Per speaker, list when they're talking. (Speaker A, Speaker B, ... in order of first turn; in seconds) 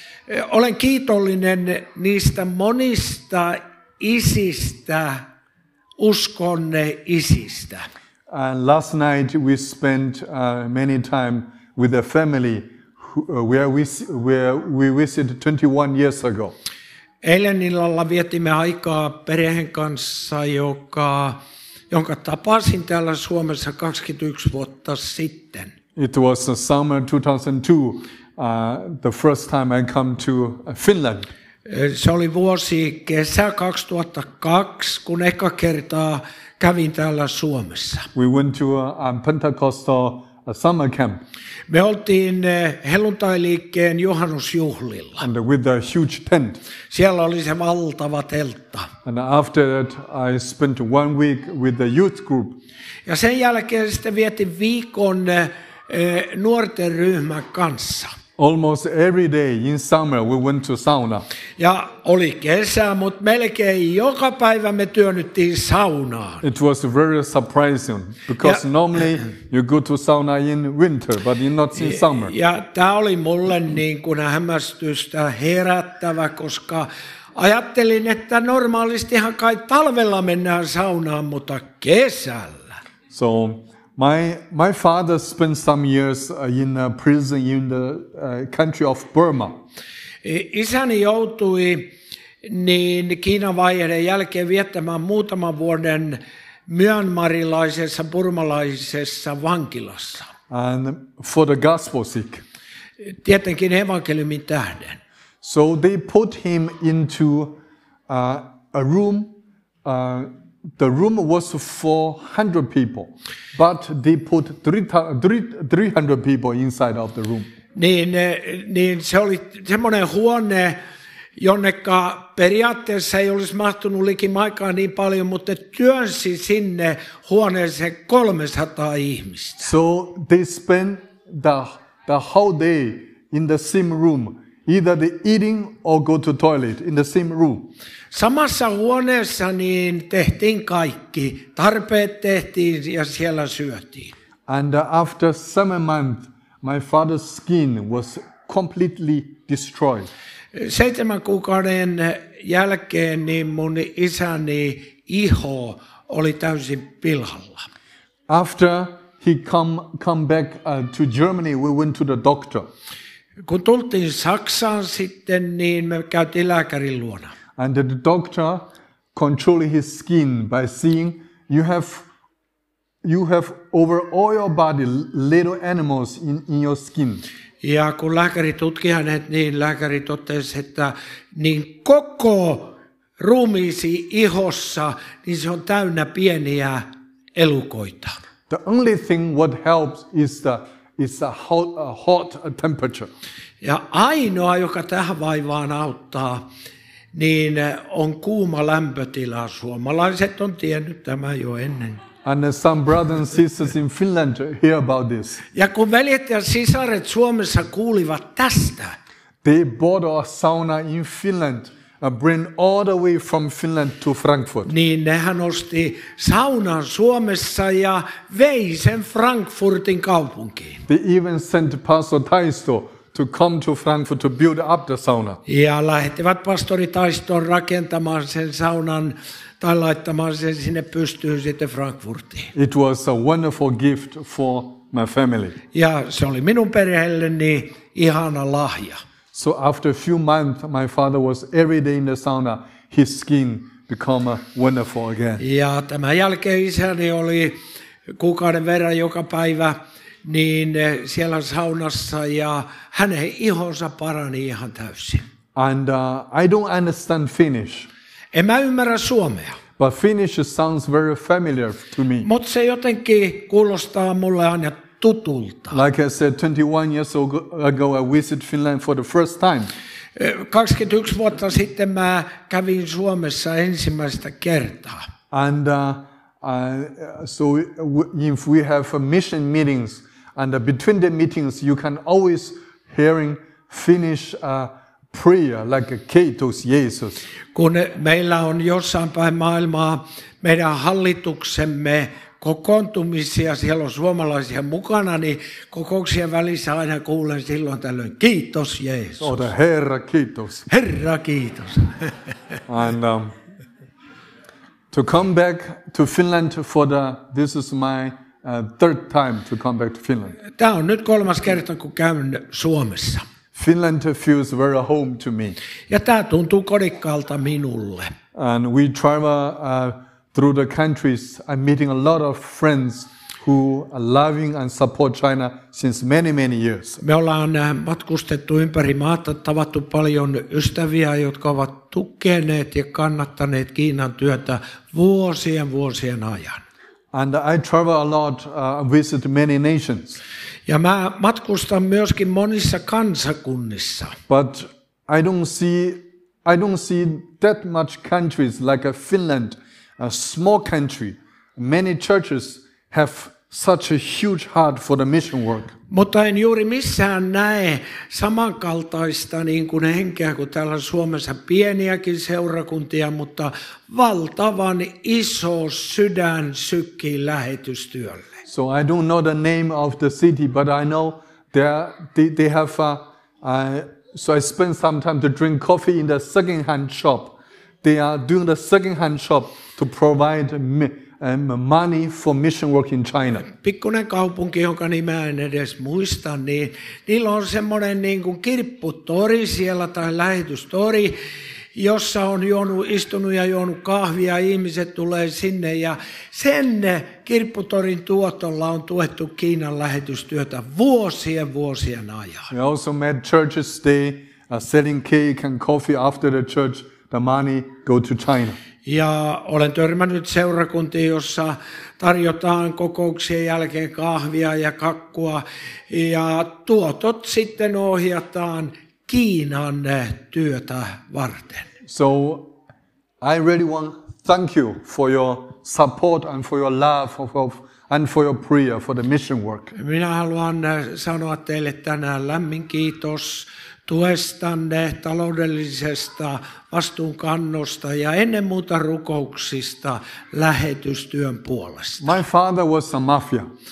Speaker A: 0.3-5.2, 6.0-7.8, 17.2-21.4, 21.9-25.7, 31.6-38.1, 41.7-45.2, 46.9-48.9, 53.0-58.1, 61.6-66.4, 71.8-82.6, 90.2-91.9, 92.4-100.3, 103.2-105.0, 117.7-120.8, 121.4-129.7, 138.1-144.1, 150.5-157.6, 163.4-167.3, 177.6-186.8, 187.3-188.1, 193.6-196.4, 197.1-202.0, 205.5-208.9, 214.7-220.8, 225.4-232.5, 235.7-239.0, 245.4-255.2, 258.3-259.6, 262.2-265.8, 270.1-275.0, 287.5-299.5, 300.7-302.1, 310.6-313.2, 315.9-318.1, 327.0-336.6, 340.7-344.2, 355.9-368.3, 383.4-391.2, 391.7-402.5, 408.8-421.7, 429.7-442.1
Speaker B: 8.3-16.5, 25.9-31.3, 38.1-41.2, 45.2-46.6, 49.0-52.6, 58.4-61.3, 66.4-72.3, 83.1-89.6, 100.5-102.4, 105.4-117.5, 129.6-137.7, 144.5-150.1, 158.3-162.7, 167.6-172.1, 173.0-177.2, 188.5-193.1, 202.2-205.4, 209.4-214.7, 220.9-225.4, 232.5-235.6, 239.3-245.4, 255.5-257.9, 259.8-262.3, 265.7-269.7, 275.3-287.2, 299.2-300.7, 302.7-303.3, 304.9-310.4, 313.5-315.6, 318.3-327.0, 337.1-340.2, 344.3-355.7, 368.5-383.4, 402.5-408.6, 421.8-422.5, 423.2-429.7, 442.0-443.5